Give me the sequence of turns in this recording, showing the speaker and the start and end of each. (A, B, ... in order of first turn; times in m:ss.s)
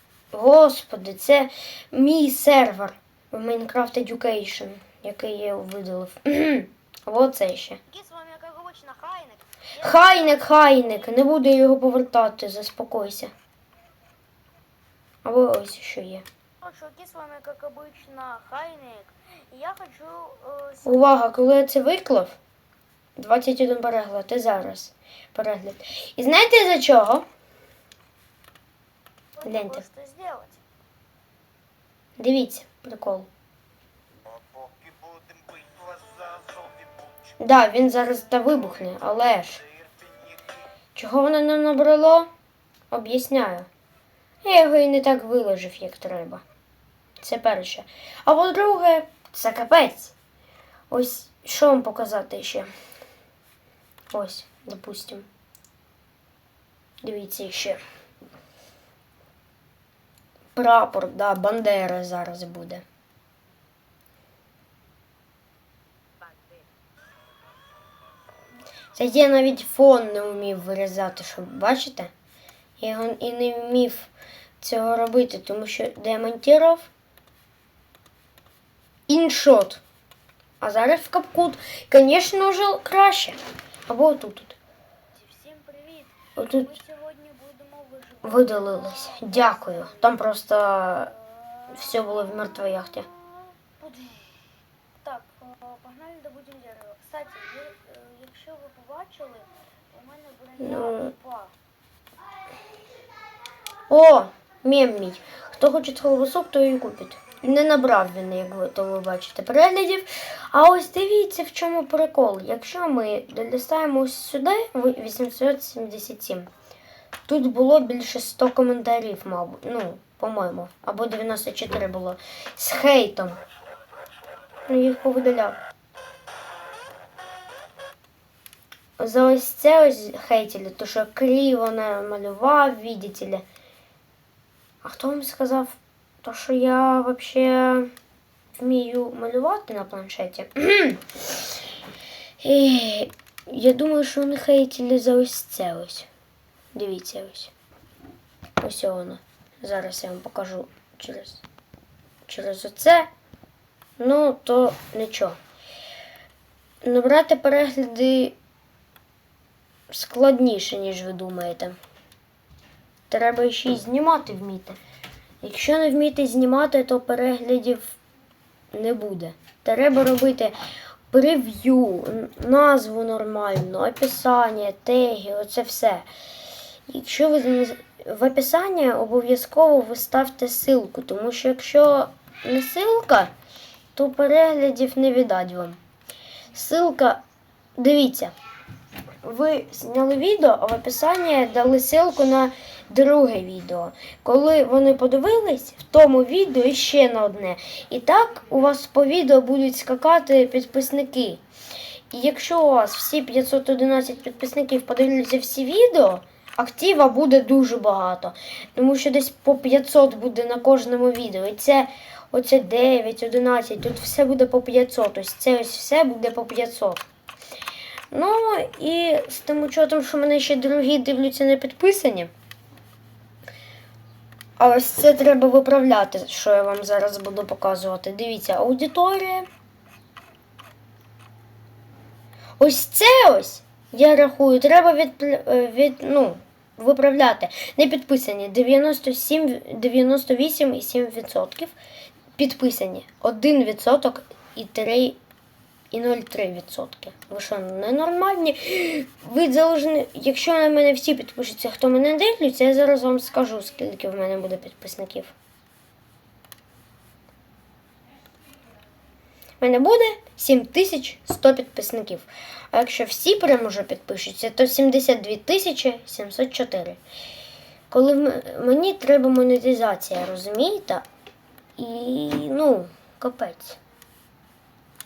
0:00.3-0:07.8 A
0:07.9-0:11.0 B
0:09.8-0:13.3 A
0:15.2-0:16.2 A
0:16.6-0:21.2 B
0:20.8-0:22.4 A
0:23.2-0:27.2 A
0:29.4-0:30.6 B
0:29.4-0:29.8 A
0:32.2-0:33.3 A
0:34.3-0:37.1 C
0:37.4-0:39.6 A
0:41.0-0:42.3 A
0:42.9-0:43.7 A
0:44.4-0:46.4 A
0:47.2-0:50.1 A
0:50.9-0:52.7 A
0:54.1-0:55.3 A
0:57.0-0:57.8 A
1:00.6-1:02.8 A
1:09.0-1:12.1 A
1:12.8-1:16.9 A
1:19.1-1:19.8 A
1:20.6-1:24.6 A
1:25.1-1:30.1 B
1:26.4-1:26.8 A
1:28.2-1:31.1 A
1:31.1-1:32.1 B
1:31.7-1:33.1 A
1:33.1-1:34.5 B
1:35.0-1:41.6 B
1:40.6-1:41.1 A
1:43.9-1:56.5 A
1:57.3-2:03.4 A
2:04.7-2:05.6 A
2:09.0-2:13.4 A
2:14.8-2:17.9 A
2:18.5-2:21.4 A
2:22.4-2:26.1 A
2:26.7-2:27.5 A
2:28.6-2:31.4 A
2:32.3-2:33.1 A
2:34.0-2:35.4 A
2:36.8-2:38.4 A
2:39.9-2:41.8 A
2:43.1-2:44.8 A
2:45.4-2:47.9 A
2:48.7-2:50.6 A
2:51.1-2:56.1 A
2:56.9-3:03.3 A
3:04.0-3:05.8 A
3:06.5-3:07.2 A
3:07.8-3:08.3 A
3:09.2-3:21.4 A
3:22.1-3:37.0 A
3:38.1-3:42.3 A
3:44.6-3:49.5 A
3:52.6-4:01.7 A
4:02.4-4:05.2 A
4:05.9-4:15.3 A
4:19.6-4:27.0 A
4:27.9-4:31.0 A
4:31.8-4:33.8 A